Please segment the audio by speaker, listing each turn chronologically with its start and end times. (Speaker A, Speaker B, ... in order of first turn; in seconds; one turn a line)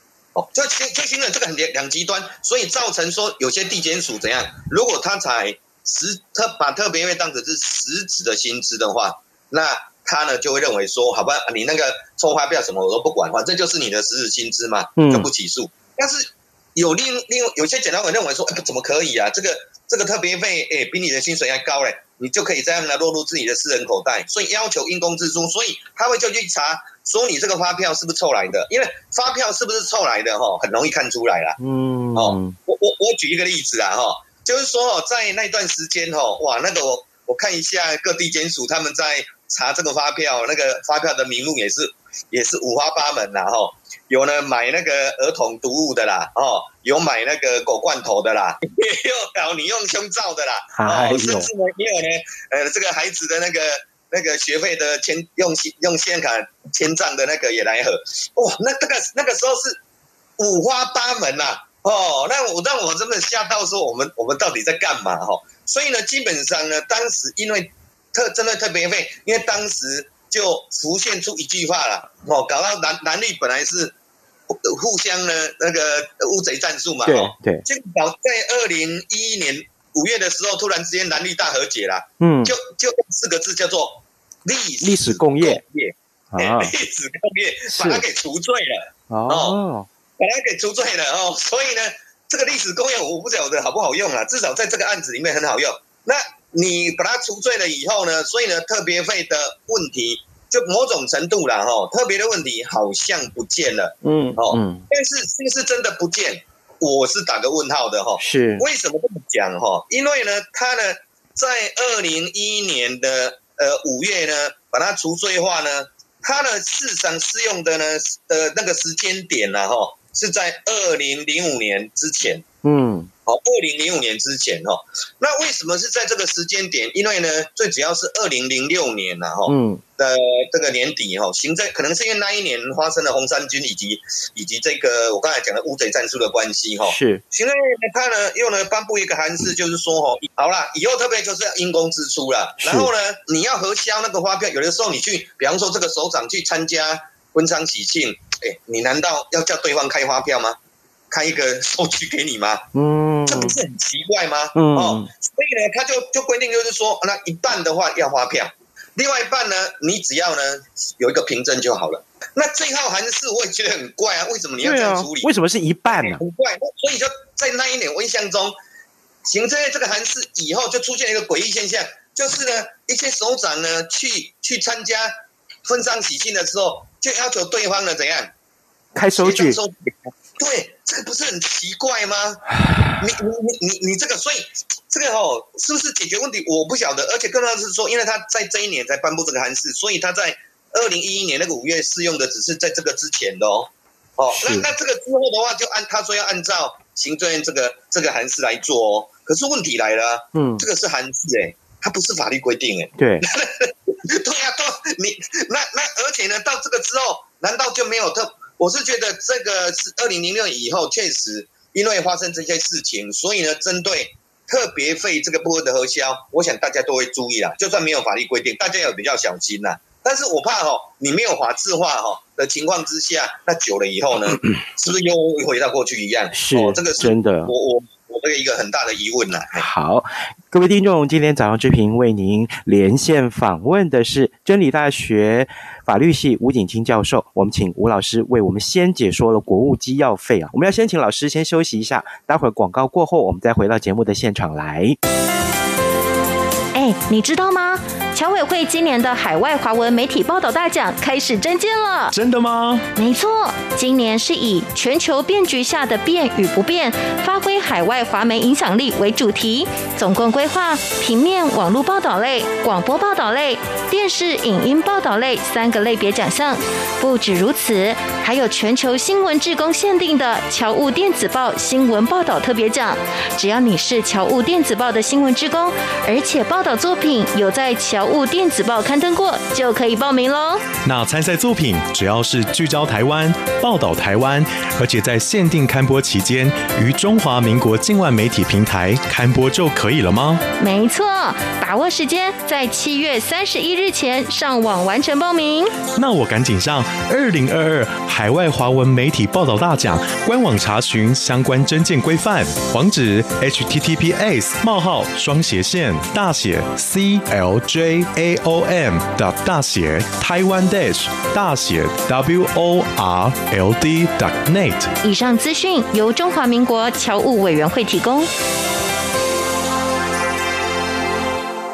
Speaker A: 0.3-31.6
Speaker B: 15.0-15.3
Speaker B: 31.6-32.5
Speaker A: 32.1-59.8
Speaker B: 50.7-51.5
Speaker A: 60.4-73.9
Speaker A: 74.5-89.6
Speaker B: 77.0-77.7
Speaker B: 82.2-82.5
Speaker B: 84.8-85.6
Speaker B: 86.3-86.7
Speaker B: 87.7-88.0
Speaker B: 89.1-89.9
Speaker A: 90.2-122.4
Speaker B: 104.0-104.9
Speaker B: 108.2-108.7
Speaker B: 122.6-123.1
Speaker A: 123.2-150.6
Speaker B: 129.4-129.8
Speaker B: 136.8-137.2
Speaker B: 142.6-142.9
Speaker A: 151.1-152.7
Speaker B: 152.7-153.6
Speaker A: 153.2-165.3
Speaker B: 154.5-155.1
Speaker B: 164.6-166.2
Speaker A: 165.9-168.5
Speaker A: 169.2-175.1
Speaker A: 175.6-178.3
Speaker B: 178.9-179.6
Speaker A: 179.2-229.7
Speaker B: 194.3-194.7
Speaker B: 200.3-200.6
Speaker B: 203.0-203.2
Speaker B: 226.3-227.5
Speaker B: 229.5-245.0
Speaker C: 246.7-252.1
Speaker D: 252.1-252.8
Speaker C: 252.9-280.6
Speaker D: 280.8-290.4
Speaker C: 290.6-295.8
Speaker D: 295.9-314.9
Speaker C: 315.0-318.3